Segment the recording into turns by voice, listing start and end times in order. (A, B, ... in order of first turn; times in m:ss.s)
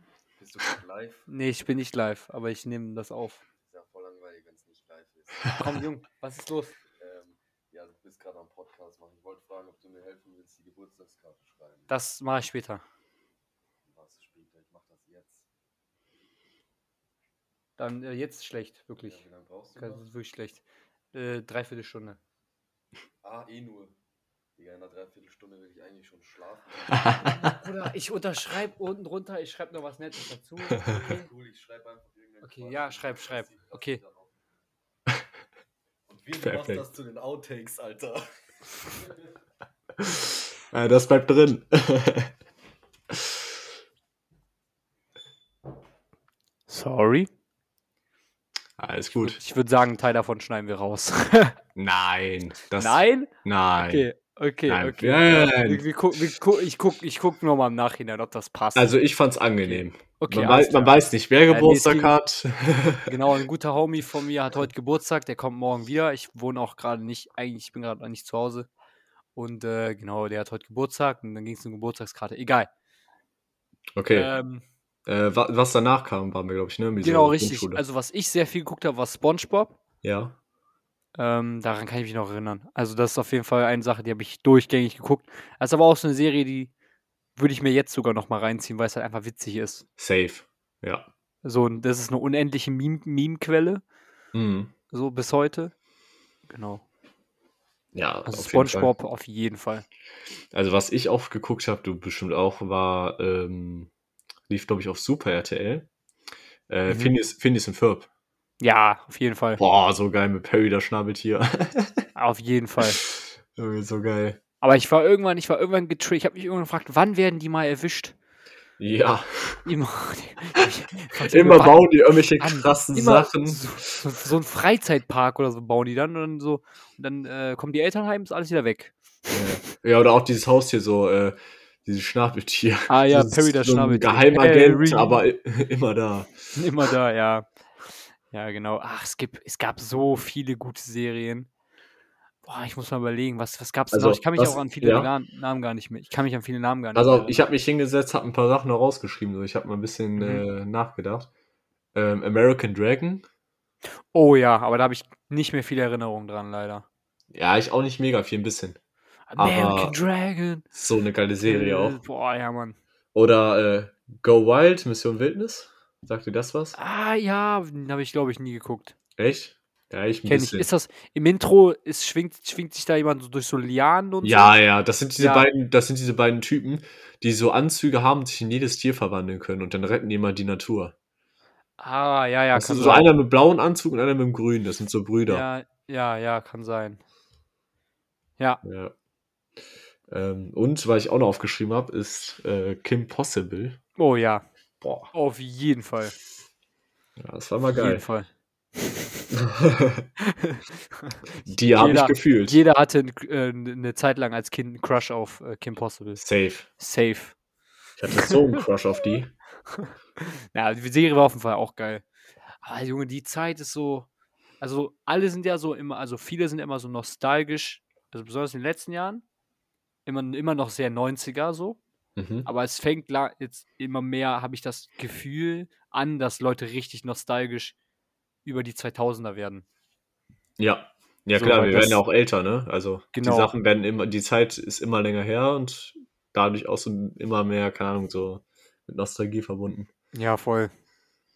0:00.4-0:01.2 A
0:01.3-0:03.4 B
0:03.6-0:05.6 A
0:05.5-0:06.7 B
0:07.0-0:12.0 A
0:11.9-0:12.8 B
0:13.8-0:15.5 A
0:17.8-0:19.2 B
0:19.0-0:20.1 A
0:19.8-0:20.6 B
0:21.1-0:22.2 B
0:23.2-0:23.9 A
0:24.6-0:27.6 A
0:26.9-0:27.5 C
0:27.2-0:31.3 B
0:30.8-0:34.4 A
0:32.4-0:34.0 B
0:36.1-0:38.2 A
0:36.4-0:36.8 C
0:40.0-0:42.3 C
0:43.1-0:43.4 C
0:46.7-0:47.3 B
0:48.8-0:49.4 C
0:49.1-0:51.6 B
0:51.8-0:54.0 C
0:52.8-0:59.0 B
0:54.7-0:55.8 C
0:58.7-1:03.1 C
0:59.6-1:02.1 B
1:03.0-1:08.7 B
1:09.4-1:12.7 B
1:14.0-1:14.3 C
1:14.1-1:14.6 B
1:15.0-1:17.8 C
1:17.0-1:19.8 B
1:20.0-1:20.4 C
1:21.2-1:26.7 B
1:27.4-1:29.8 B
1:30.0-1:31.1 C
1:31.4-1:33.8 B
1:34.3-1:34.7 C
1:34.9-1:35.7 B
1:36.5-1:36.8 B
1:37.9-1:38.9 C
1:38.3-1:39.8 B
1:40.5-1:43.9 C
1:44.5-1:45.9 C
1:46.7-1:48.1 C
1:46.9-1:47.2 B
1:48.6-1:49.6 B
1:49.6-1:52.0 C
1:52.2-1:53.0 B
1:53.0-1:54.4 C
1:54.6-1:58.1 B
1:58.8-1:59.6 C
1:59.6-2:09.5 B
2:01.2-2:03.7 C
2:09.3-2:16.3 C
2:12.9-2:15.2 B
2:16.5-2:17.5 B
2:18.3-2:21.5 B
2:22.4-2:27.4 B
2:23.9-2:25.1 C
2:26.9-2:31.3 C
2:30.2-2:30.4 B
2:31.9-2:33.2 C
2:34.1-2:36.8 B
2:37.3-2:38.8 C
2:39.3-2:40.6 B
2:39.4-2:40.0 C
2:40.7-2:42.0 C
2:41.4-2:42.8 B
2:43.1-2:46.8 C
2:46.8-2:48.9 B
2:49.2-2:50.7 C
2:50.2-2:54.6 B
2:54.2-3:00.9 C
2:55.2-2:55.5 B
3:01.8-3:03.1 B
3:02.5-3:05.4 C
3:05.3-3:07.0 B
3:08.6-3:08.9 C
3:10.1-3:13.8 C
3:14.0-3:14.4 B
3:14.8-3:15.1 C
3:15.1-3:16.1 B
3:17.2-3:18.0 C
3:17.7-3:19.2 B
3:19.3-3:20.0 C
3:20.2-3:21.2 B
3:21.4-3:22.6 C
3:21.8-3:26.2 B
3:26.2-3:26.7 C
3:26.8-3:27.3 B
3:28.0-3:29.3 C
3:28.2-3:28.6 B
3:29.7-3:32.0 B
3:32.6-3:34.1 B
3:34.6-3:39.2 B
3:40.0-3:41.8 B
3:42.2-3:42.5 C
3:42.4-3:47.7 B
3:48.4-3:49.6 B
3:50.6-3:59.9 C
3:51.3-3:52.0 B
3:53.1-3:53.5 B
4:00.1-4:00.7 B